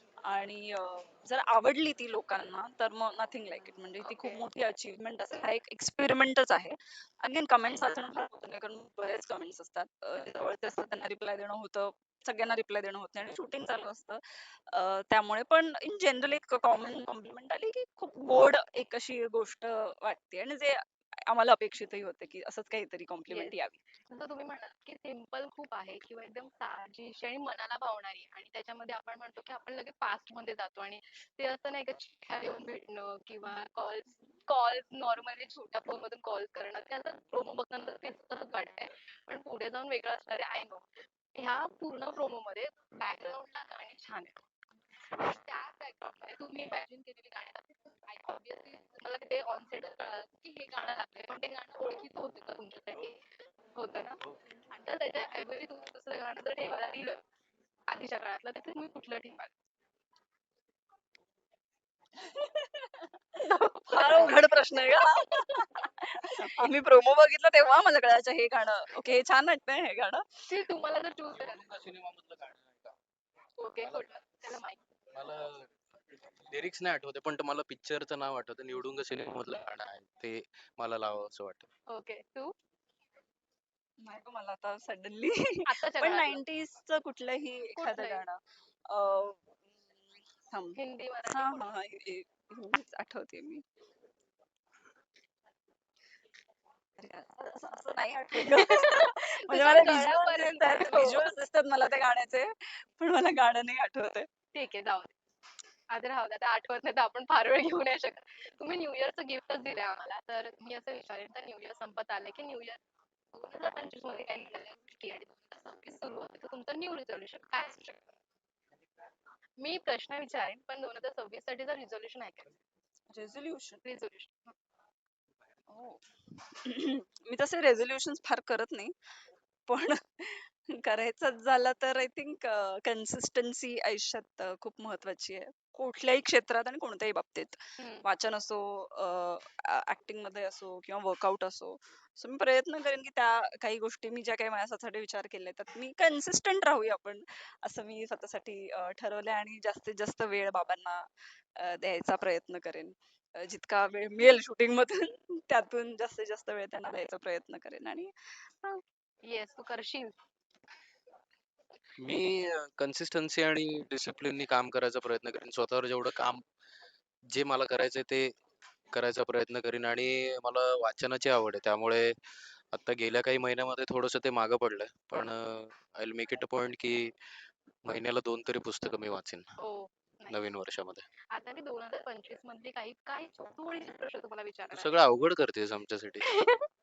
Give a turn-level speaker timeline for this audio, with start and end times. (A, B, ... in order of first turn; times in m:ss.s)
0:00.2-0:23.8 A
0:04.0-0:04.4 B
0:23.3-0:23.5 B
0:24.1-0:44.4 B
0:45.2-0:54.2 B
0:54.7-0:57.2 B
0:57.9-0:59.5 B
1:02.2-1:03.1 A
1:03.4-1:05.7 B
1:03.9-1:10.2 A
1:10.5-1:11.6 B
1:11.3-1:13.0 C
1:13.6-1:14.8 B
1:15.1-1:15.8 C
1:16.5-1:21.7 C
1:21.9-1:22.5 B
1:24.0-1:33.6 A
1:25.6-1:26.4 B
1:27.8-1:28.2 B
1:30.8-1:31.7 B
1:37.0-1:44.3 A
1:38.4-1:41.3 B
1:44.5-1:45.1 B
1:45.9-1:52.8 B
1:53.3-1:58.1 B
1:59.6-2:02.5 B
2:03.1-2:03.8 A
2:03.8-2:04.5 B
2:05.7-2:08.9 A
2:09.7-2:31.0 A
2:17.8-2:18.0 B
2:31.6-2:38.1 A
2:39.2-2:40.1 B
2:42.0-2:46.4 C
2:47.3-2:48.3 C
2:48.9-2:52.2 C
2:52.7-2:57.1 C
2:57.8-2:59.5 C
2:59.6-3:00.4 B
3:00.3-3:01.1 C
3:01.3-3:04.9 B
3:04.7-3:06.3 C
3:06.2-3:06.7 B